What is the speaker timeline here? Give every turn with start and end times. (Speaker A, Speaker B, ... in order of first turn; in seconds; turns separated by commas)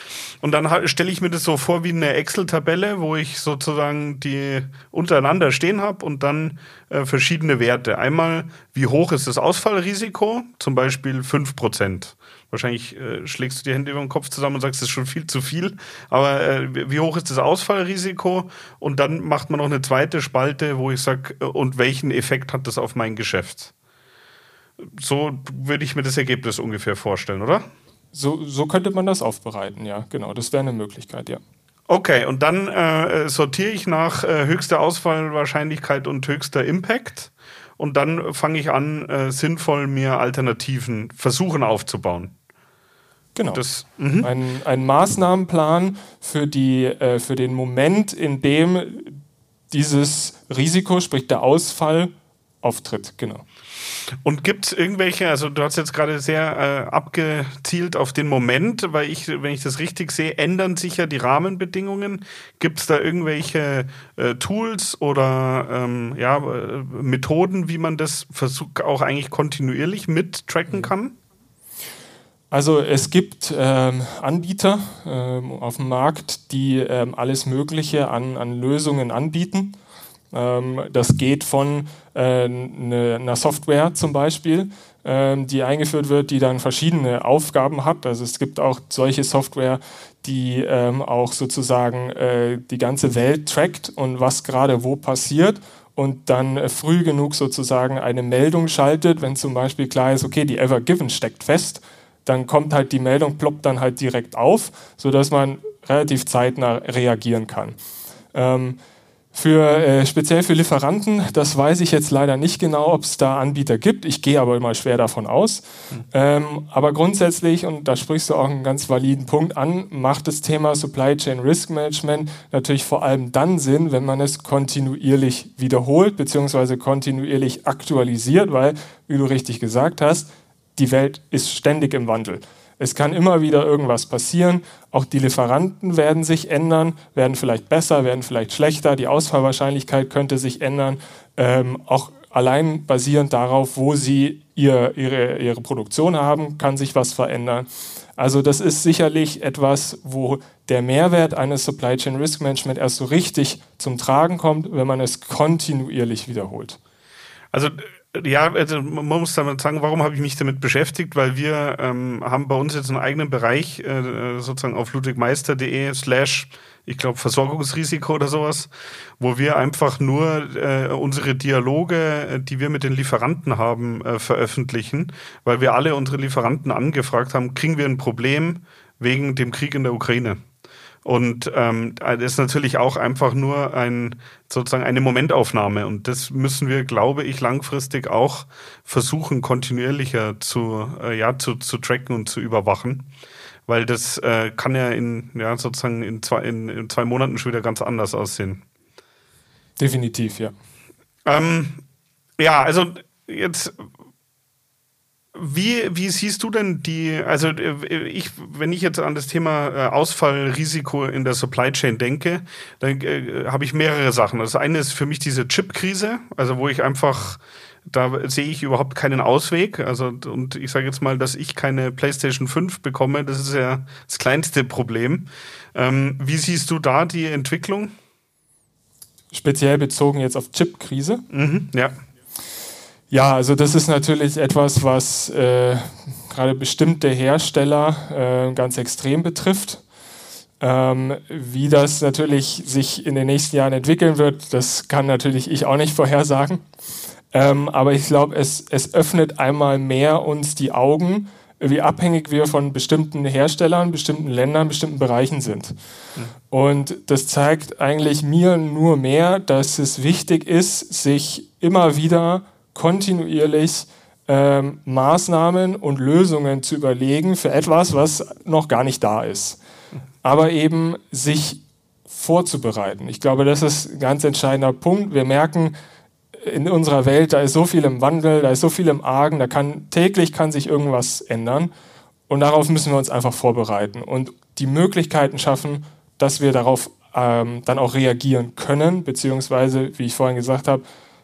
Speaker A: 0.4-23.7, Speaker A: 24.8-27.6, Speaker B: 28.1-31.4, Speaker A: 31.9-42.3, Speaker B: 43.4-43.6, Speaker A: 43.5-44.3, Speaker B: 44.2-49.2, Speaker B: 49.7-52.1, Speaker B: 52.6-53.4, Speaker A: 54.2-71.1, Speaker B: 72.5-79.8, Speaker B: 80.3-107.8, Speaker B: 108.3-108.8, Speaker B: 109.3-156.8, Speaker A: 157.5-180.4, Speaker A: 181.0-193.1, Speaker A: 193.7-198.6, Speaker B: 199.8-200.5, Speaker A: 201.2-201.8, Speaker A: 202.4-203.8, Speaker A: 205.3-227.9, Speaker B: 229.3-231.2, Speaker A: 231.3-231.9, Speaker B: 233.1-239.8, Speaker B: 240.6-246.6, Speaker B: 247.3-255.7, Speaker B: 256.5-269.6, Speaker B: 270.2-275.7, Speaker B: 276.4-281.7, Speaker B: 282.3-290.8